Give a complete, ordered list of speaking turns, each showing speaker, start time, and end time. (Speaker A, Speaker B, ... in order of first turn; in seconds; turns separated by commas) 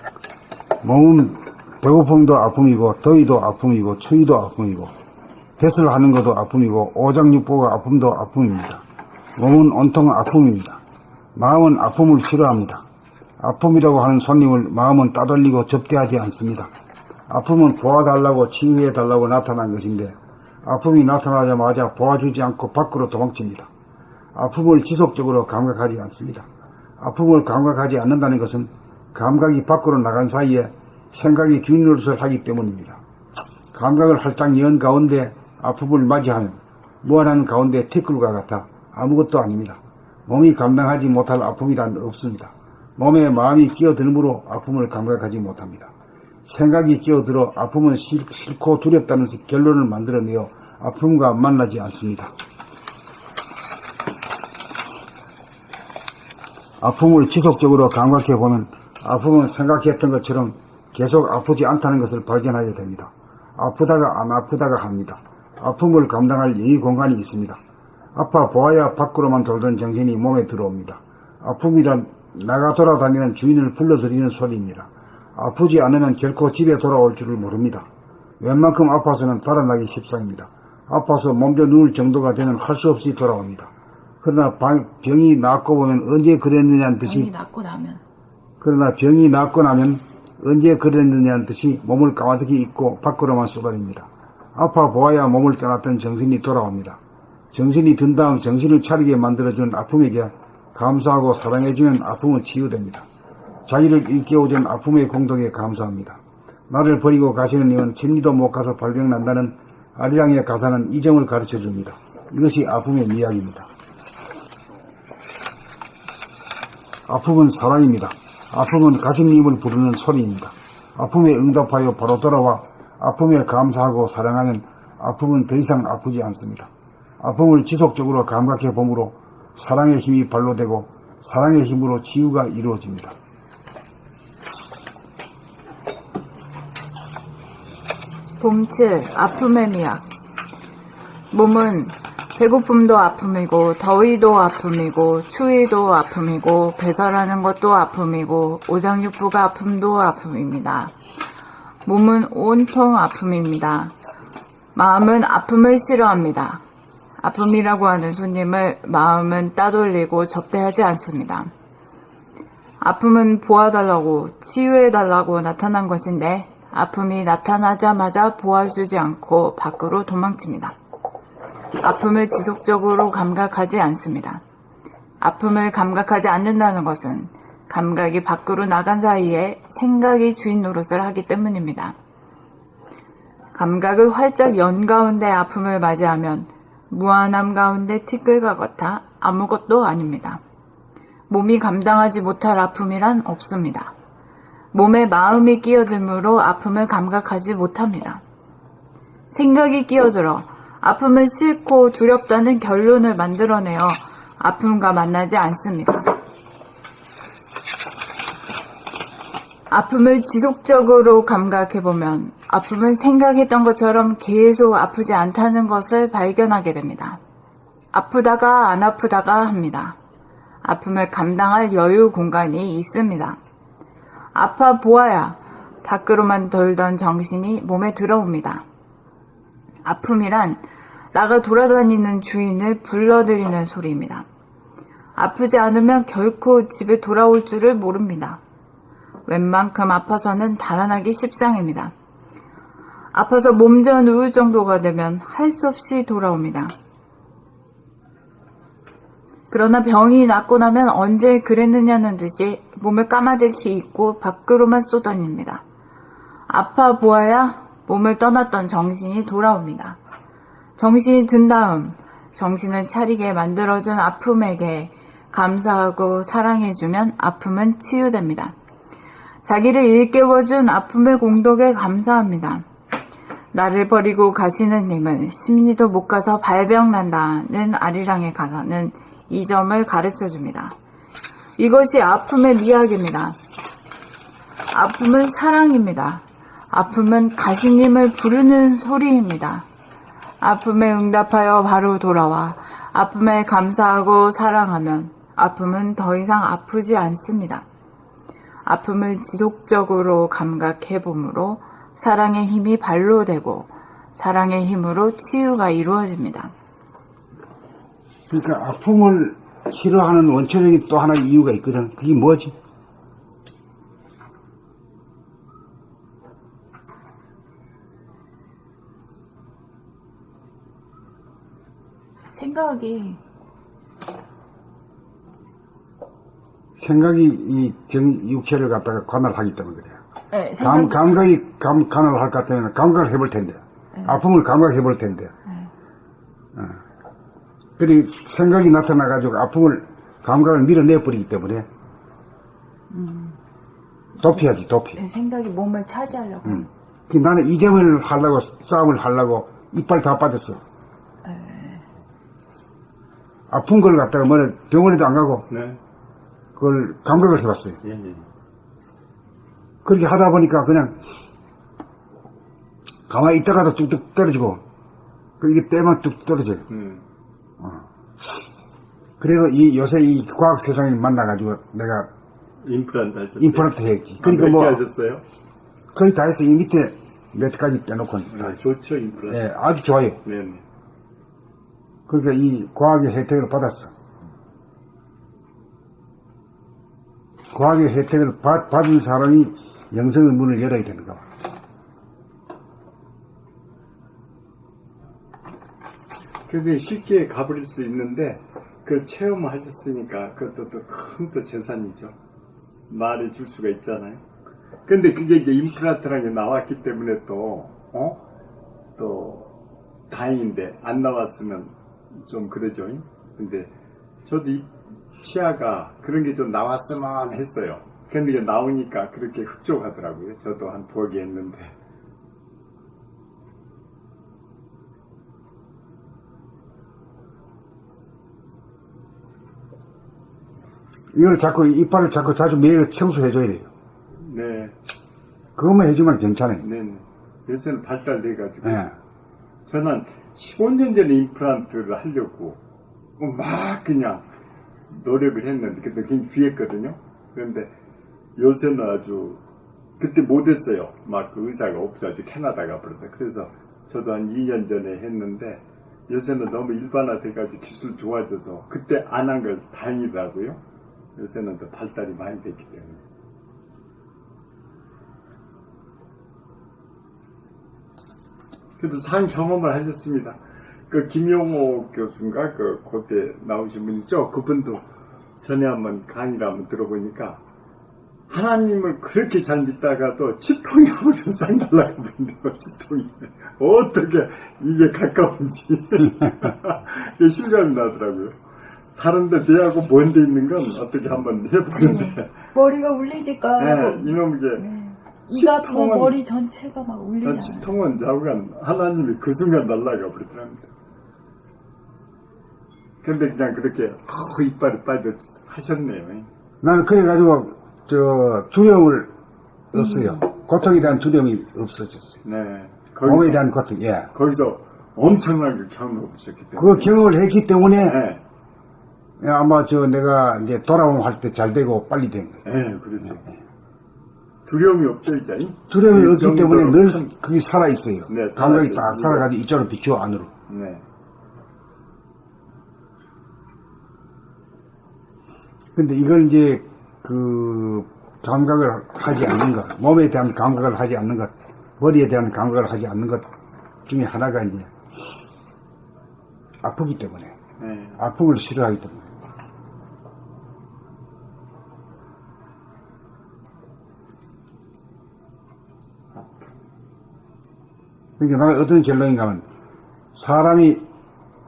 Speaker A: 0.8-4.9, Speaker A: 5.6-8.8, Speaker A: 9.4-10.8, Speaker A: 11.3-12.8, Speaker A: 13.4-16.7, Speaker A: 17.3-23.7, Speaker A: 24.4-26.5, Speaker A: 27.0-33.0, Speaker A: 33.7-45.9, Speaker A: 46.5-52.3, Speaker A: 56.8-67.6, Speaker A: 68.2-77.9, Speaker A: 78.4-87.3, Speaker B: 87.0-88.0, Speaker A: 88.6-97.0, Speaker A: 97.5-103.1, Speaker A: 103.7-113.7, Speaker A: 117.1-133.2, Speaker B: 138.4-140.1, Speaker B: 141.3-150.9, Speaker B: 151.9-153.9, Speaker B: 154.8-156.6, Speaker B: 157.2-161.5, Speaker B: 162.8-170.8, Speaker B: 171.8-174.4, Speaker B: 175.2-182.0, Speaker B: 183.6-190.4, Speaker B: 191.3-193.9, Speaker B: 194.7-198.2, Speaker B: 199.3-206.2, Speaker B: 209.7-217.2, Speaker B: 217.9-220.0, Speaker B: 220.6-223.4, Speaker B: 224.3-228.7, Speaker B: 229.8-230.6, Speaker B: 231.1-234.3, Speaker B: 235.2-238.4, Speaker B: 239.3-241.9, Speaker B: 243.1-246.7, Speaker B: 249.5-255.6, Speaker B: 256.5-260.0, Speaker B: 260.8-268.5, Speaker B: 269.4-272.6, Speaker B: 273.5-280.8, Speaker B: 281.6-283.4, Speaker B: 284.7-289.7, Speaker B: 290.4-297.6, Speaker B: 298.6-306.5, Speaker A: 308.3-312.5, Speaker B: 322.3-323.2, Speaker A: 326.8-330.0, Speaker B: 330.3-331.1, Speaker A: 330.6-335.3, Speaker A: 337.8-341.7, Speaker B: 342.9-343.4, Speaker A: 344.2-345.0, Speaker B: 345.0-346.7, Speaker A: 346.4-350.6, Speaker B: 351.2-351.9, Speaker A: 353.5-355.5, Speaker C: 355.5-355.8, Speaker A: 356.6-357.8, Speaker C: 357.8-358.3, Speaker A: 359.8-361.0, Speaker A: 363.1-364.6, Speaker A: 365.4-366.7, Speaker C: 366.7-367.0, Speaker A: 367.6-368.4, Speaker A: 369.2-372.1, Speaker C: 372.6-375.2, Speaker A: 373.4-374.8, Speaker A: 375.9-378.6, Speaker C: 378.3-379.4, Speaker A: 379.3-380.2, Speaker C: 380.2-380.6, Speaker A: 382.1-383.9, Speaker A: 387.5-391.3, Speaker C: 396.5-402.1, Speaker C: 402.9-404.2, Speaker C: 404.9-408.2, Speaker C: 409.0-409.5, Speaker C: 410.1-413.7, Speaker C: 414.2-414.7, Speaker C: 415.2-421.7, Speaker A: 431.1-433.7, Speaker C: 434.2-434.8, Speaker A: 435.6-436.6, Speaker C: 436.6-438.9, Speaker C: 439.7-442.6, Speaker C: 443.2-444.2, Speaker C: 444.9-447.7, Speaker C: 448.4-449.4, Speaker C: 450.0-460.6, Speaker C: 461.2-463.0, Speaker C: 468.8-470.4, Speaker C: 470.9-474.8, Speaker C: 475.4-477.4, Speaker C: 478.3-488.3, Speaker C: 489.0-492.3, Speaker B: 491.7-497.7, Speaker C: 493.6-494.6, Speaker C: 495.3-496.2, Speaker C: 497.2-500.7, Speaker C: 503.0-506.3, Speaker A: 506.6-509.1, Speaker A: 509.7-512.2, Speaker C: 512.2-513.5, Speaker A: 513.0-514.1, Speaker C: 514.1-517.0, Speaker A: 516.6-518.0, Speaker C: 517.7-518.2, Speaker A: 519.2-522.4, Speaker C: 522.5-523.3, Speaker C: 524.5-527.1, Speaker A: 525.7-530.3, Speaker C: 528.1-529.3, Speaker C: 530.5-530.8, Speaker A: 535.8-543.3, Speaker A: 543.9-544.7, Speaker A: 546.6-547.4, Speaker C: 547.6-548.0, Speaker A: 548.0-549.1, Speaker A: 558.2-559.5, Speaker A: 560.1-560.8